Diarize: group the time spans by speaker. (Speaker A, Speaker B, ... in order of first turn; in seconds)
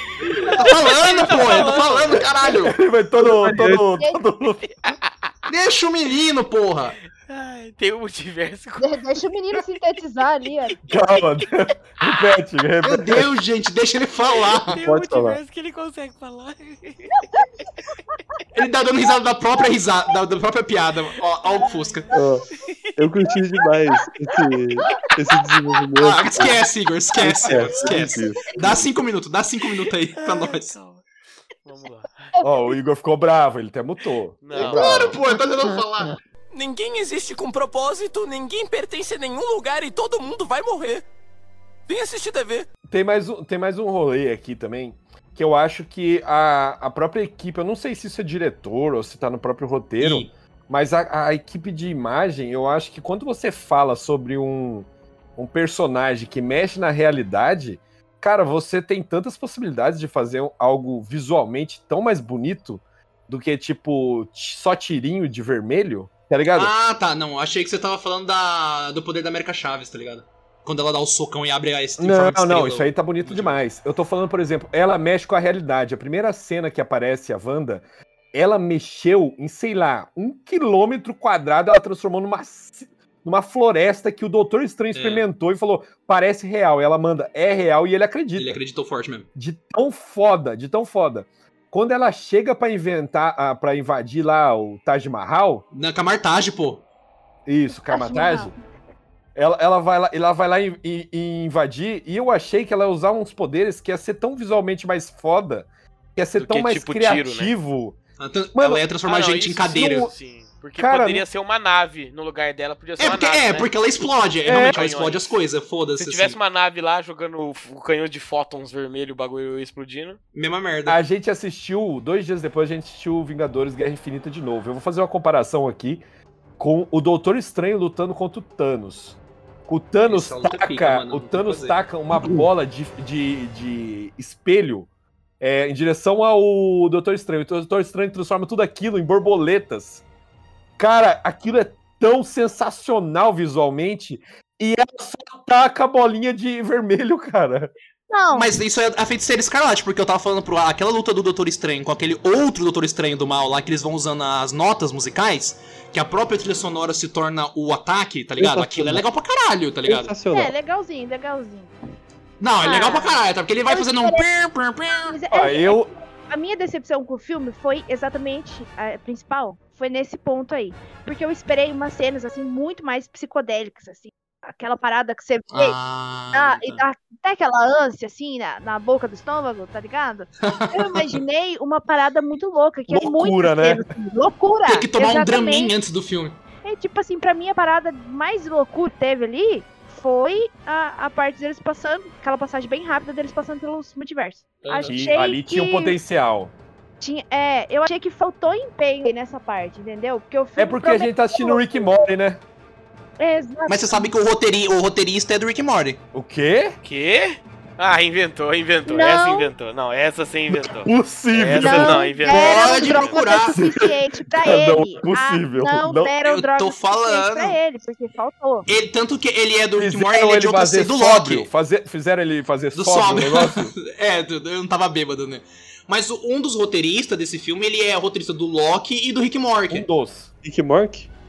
Speaker A: 0.5-2.2, 4.6-5.5, 7.2-9.0, 10.7-11.2, 14.3-17.4, 21.4-23.0, 27.7-28.2, 30.2-31.0, 31.6-32.4, 34.4-35.1, 106.3-107.5, 109.0-113.7, 114.5-115.3, 116.0-120.2, 206.8-213.2
Speaker B: 0.6-2.8, 5.5-7.0, 12.8-14.8, 18.5-22.1, 26.0-30.8, 34.5-36.1, 50.0-50.3, 66.5-73.6, 84.9-85.2, 88.3-89.3, 95.7-96.8, 108.2-110.1, 113.0-116.4, 120.3-121.0, 130.0-131.8, 148.3-160.1, 162.4-165.2, 175.5-176.8, 180.4-181.1, 184.7-186.4, 194.6-195.0, 203.7-206.0, 212.2-213.6, 216.2-217.6, 218.7-221.5, 222.7-229.9
Speaker C: 2.6-4.7, 10.9-13.3, 32.4-35.1, 42.9-66.7, 72.0-88.6, 89.3-95.6, 97.5-98.5, 99.3-108.0, 108.5-108.9, 109.7-110.1, 110.8-111.2, 114.5-114.8, 120.9-126.0, 126.6-134.9, 135.4-140.0, 140.8-147.7, 165.3-165.9, 182.9-183.8, 194.9-196.5, 200.6-202.4, 206.1-206.8, 210.5-212.1, 213.4-216.1, 219.8-223.7, 229.7-230.3
Speaker D: 3.2-3.9, 14.8-15.4, 22.1-22.5, 23.0-26.6, 27.2-28.9, 132.2-132.4, 158.4-159.0, 159.8-160.5, 230.4-231.1
Speaker E: 8.8-10.7, 97.9-98.5, 148.1-148.5, 160.3-161.7, 162.6-164.2, 165.1-175.8, 176.3-185.7, 186.6-196.0, 197.0-202.0, 203.2-204.1, 208.8-209.5, 211.5-218.7
Speaker F: 36.5-41.0, 41.9-42.7